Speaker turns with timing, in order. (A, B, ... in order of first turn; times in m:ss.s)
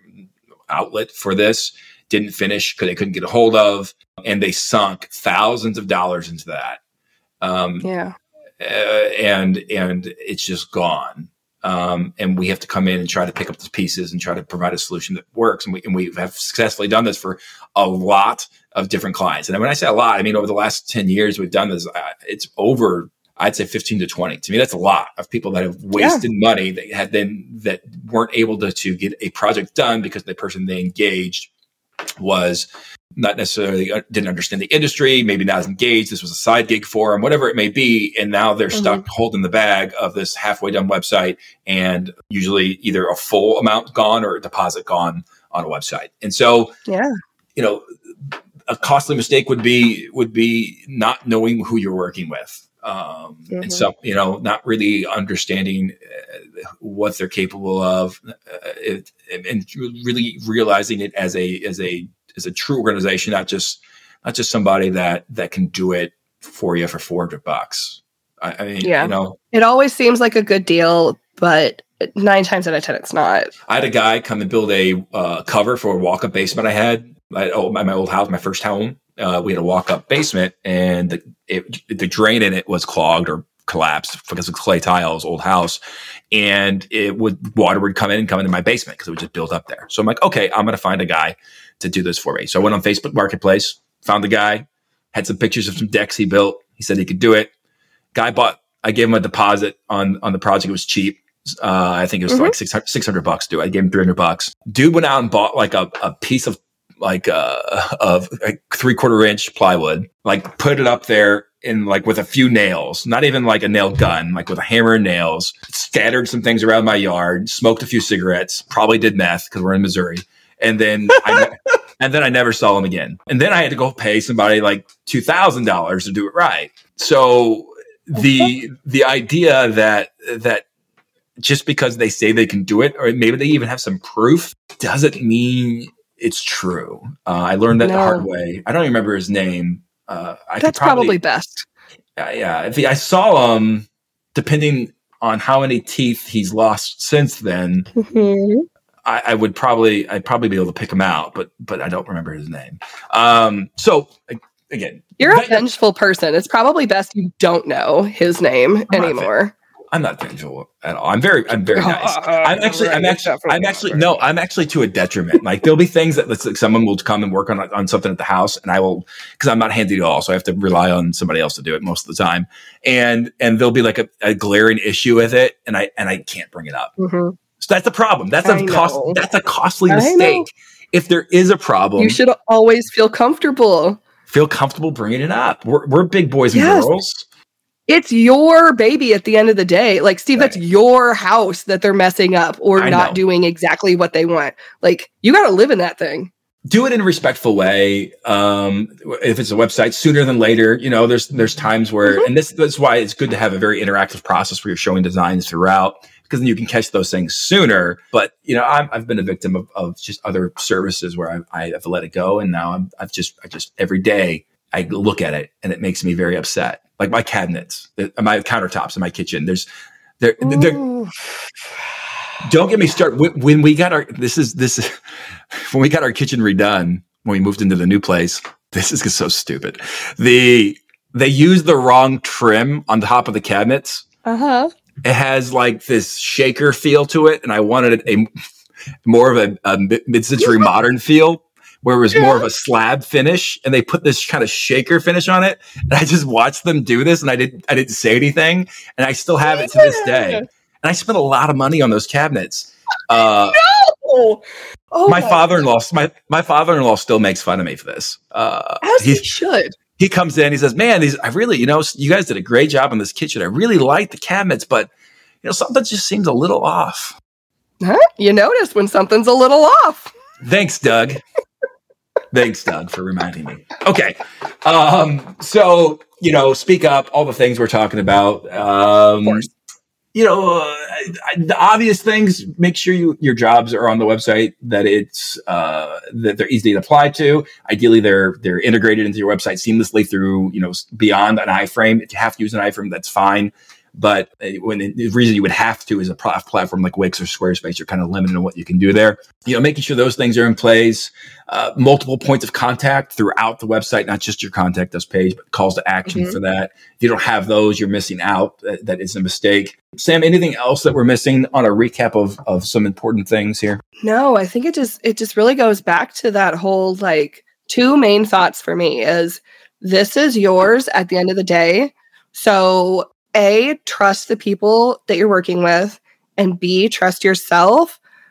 0:00.7-0:06.8 A
0:07.4-0:07.9 A
0:07.8-0:08.1 B
0:08.6-0:31.5 A
0:26.0-0:26.2 B
0:32.2-0:46.7 A
0:38.7-0:39.0 B
0:46.9-0:47.1 B
0:47.6-0:47.8 A
0:48.7-1:09.4 A
0:53.5-0:53.8 B
1:08.8-1:13.5 B
1:13.7-1:25.8 A
1:26.3-1:37.5 A
1:38.1-2:10.6 A
1:42.3-1:42.5 B
2:11.4-2:21.1 A
2:17.8-2:18.2 B
2:20.6-2:21.6 B
2:22.2-2:27.9 A
2:28.0-2:28.6 B
2:29.0-2:35.7 A
2:35.2-2:39.5 B
2:38.9-2:39.3 A
2:39.9-2:56.9 A
2:41.7-2:44.2 B
2:57.0-2:57.4 B
2:57.6-3:02.2 A
2:58.4-2:59.2 B
2:59.9-3:00.4 B
3:02.0-3:04.0 B
3:04.3-3:07.2 A
3:06.5-3:06.9 B
3:07.9-3:16.3 B
3:12.8-3:13.2 A
3:16.7-3:39.7 A
3:40.2-3:40.8 A
3:40.4-3:41.1 B
3:42.4-3:44.9 A
3:45.5-3:54.0 A
3:54.2-3:54.7 B
3:55.0-3:58.3 A
3:59.0-4:13.6 A
4:00.4-4:00.7 B
4:02.1-4:02.4 B
4:09.4-4:10.4 B
4:13.2-4:15.5 B
4:15.1-4:19.2 A
4:18.8-4:19.7 B
4:19.9-4:24.9 A
4:25.4-4:27.2 A
4:27.8-4:30.1 B
4:30.4-4:31.2 A
4:32.3-4:39.5 A
4:40.1-5:13.8 A
5:06.1-5:06.4 B
5:14.0-5:28.0 B